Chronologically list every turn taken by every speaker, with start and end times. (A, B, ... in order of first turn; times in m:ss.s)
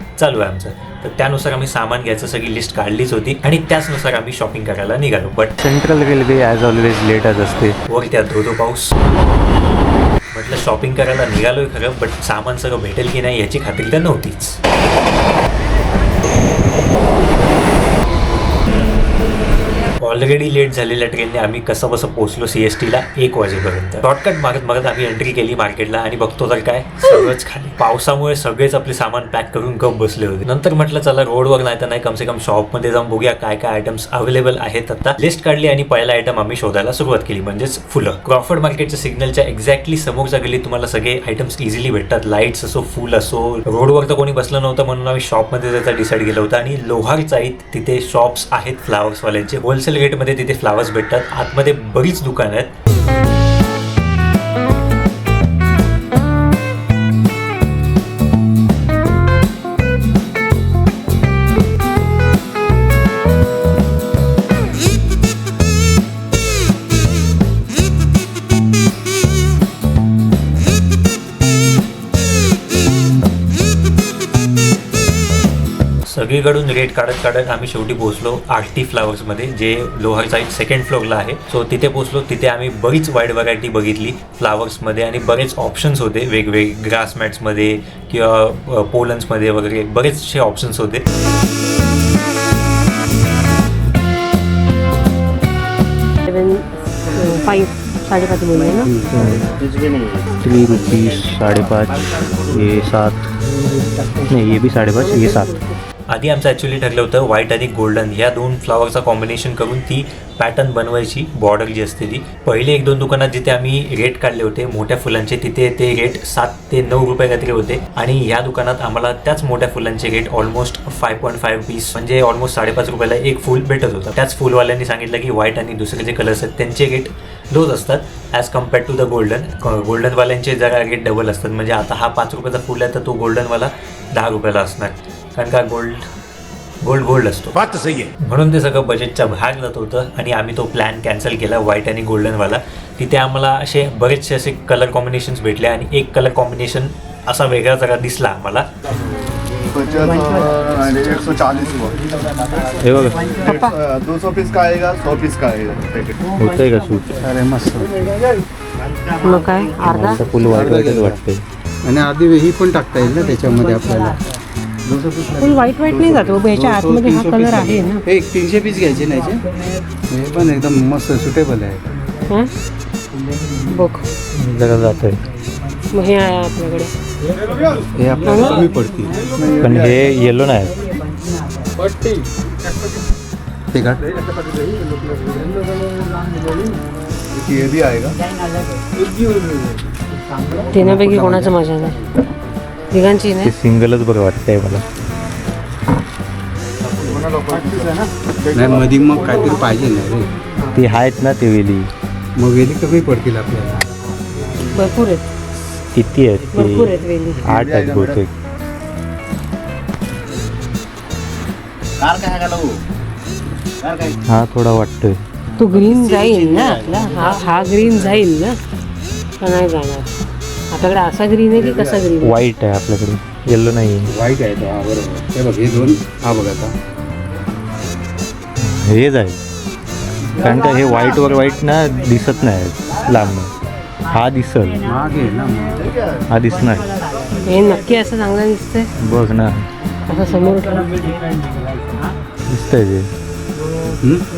0:00.2-0:05.6 A
0:05.6-0:07.8 B
0:07.8-0:08.9 A
0:10.3-0:14.6 A
0:20.0-0:52.7 A
1:16.0-1:31.0 A
1:36.3-1:39.0 C
1:38.8-1:39.4 D
1:39.1-1:39.5 B
1:40.4-1:43.3 B
1:44.3-1:45.5 B
1:45.0-1:45.7 C
1:46.1-2:16.1 A
2:16.8-2:28.7 A
2:29.7-2:32.0 E
2:32.8-2:33.4 B
2:33.4-2:33.8 C
2:33.4-2:36.3 E
2:36.4-2:37.2 B
2:37.2-2:38.1 D
2:39.2-2:40.3 C
2:39.8-2:41.4 B
2:40.5-2:41.2 D
2:41.8-2:44.2 D
2:44.8-2:49.4 D
2:45.4-2:48.0 C
2:50.1-2:51.8 D
2:53.6-2:54.1 C
2:54.3-2:55.2 B
2:55.9-2:56.9 C
2:57.9-2:59.3 D
2:58.3-2:58.6 C
2:59.4-3:00.0 E
2:59.6-3:00.8 B
3:01.9-3:02.2 D
3:03.7-3:06.5 D
3:07.4-3:08.2 E
3:09.0-3:09.5 D
3:10.7-3:12.0 C
3:10.7-3:11.5 D
3:12.9-3:13.5 C
3:13.4-3:14.8 B
3:17.0-3:19.5 E
3:18.5-3:20.3 D
3:20.7-3:21.9 B
3:22.4-3:23.9 D
3:24.7-3:25.3 C
3:25.9-3:26.9 B
3:26.5-3:27.4 C
3:27.4-3:28.3 E
3:27.5-3:28.3 B
3:34.3-3:35.2 B
3:35.6-3:38.6 C
3:39.4-3:40.0 C
3:40.7-3:42.4 C
3:42.2-3:44.1 B
3:44.1-3:46.7 D
3:48.6-3:49.4 B
3:50.4-3:53.5 B
3:54.1-3:54.8 B
3:54.8-3:55.9 D
3:55.8-3:56.2 E
3:56.3-3:56.9 B
3:57.4-3:58.9 C
3:59.0-3:59.7 B
4:00.1-4:01.0 C
4:02.5-4:03.1 B
4:04.0-4:04.2 D